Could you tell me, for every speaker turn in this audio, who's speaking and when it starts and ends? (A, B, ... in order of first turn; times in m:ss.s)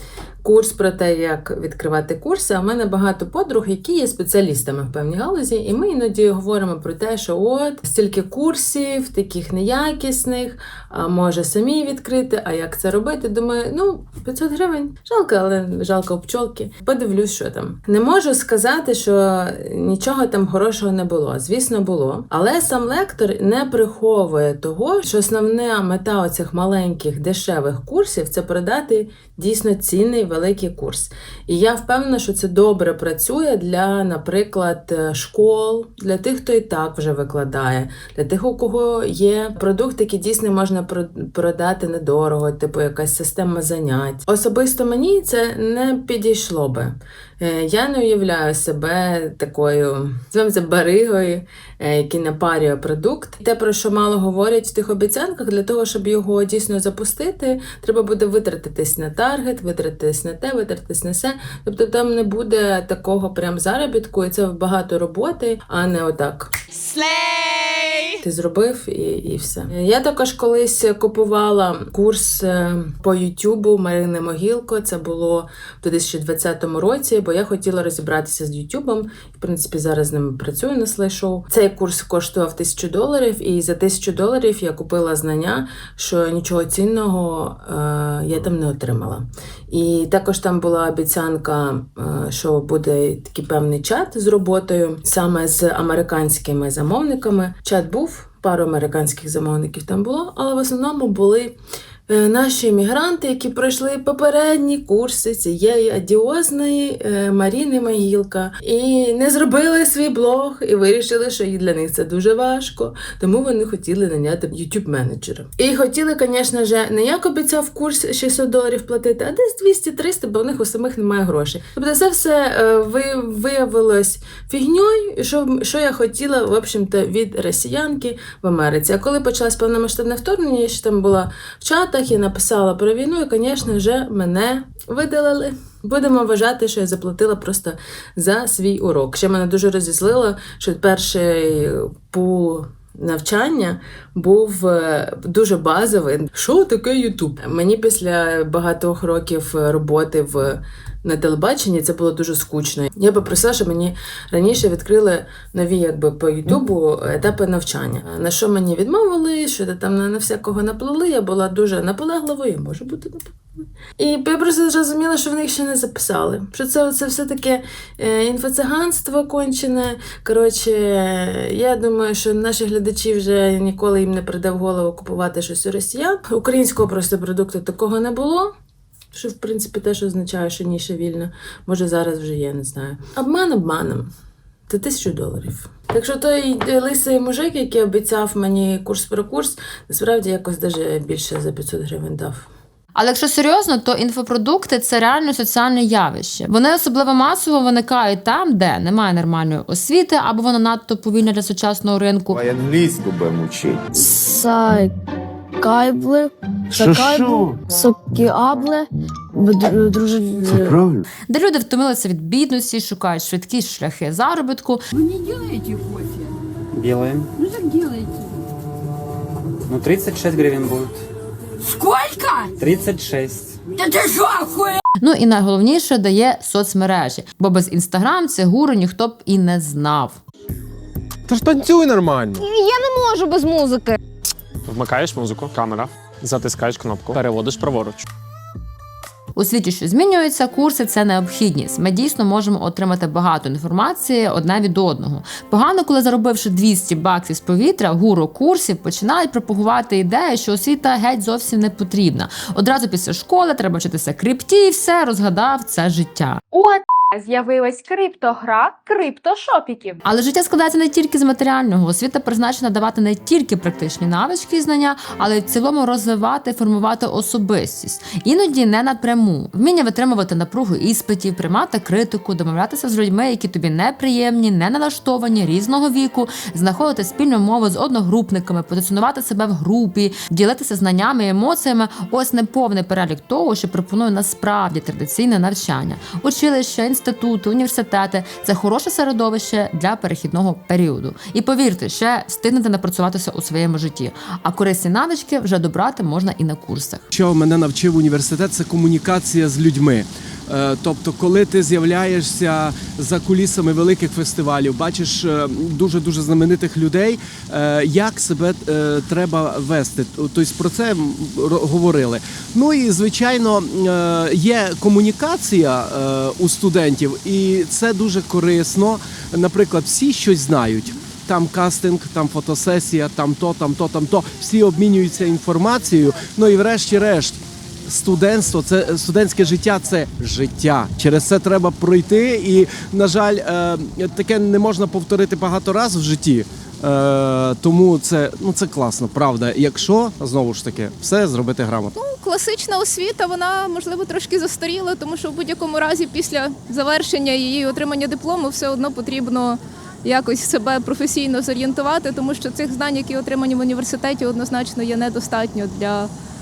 0:00.4-1:06.5 A
1:08.2-2:43.4 A
2:44.0-2:58.5 A
2:59.1-3:04.1 A
3:04.7-3:12.5 A
3:12.9-3:22.4 B
3:22.3-3:24.1 C
3:24.2-3:24.9 D
3:25.6-3:28.8 D
3:26.8-3:27.4 C
3:29.4-3:30.7 D
3:30.4-3:30.9 C
3:31.3-3:34.8 B
3:36.7-3:37.3 E
3:39.7-3:41.0 E
3:41.8-3:42.3 D
3:42.6-3:43.6 E
3:44.1-3:44.4 D
3:45.0-3:50.2 B
3:54.7-3:58.0 E
3:59.3-4:16.4 B
4:16.5-4:20.0 F
4:20.0-4:57.1 B
4:57.1-5:41.9 G
5:42.0-5:56.1 H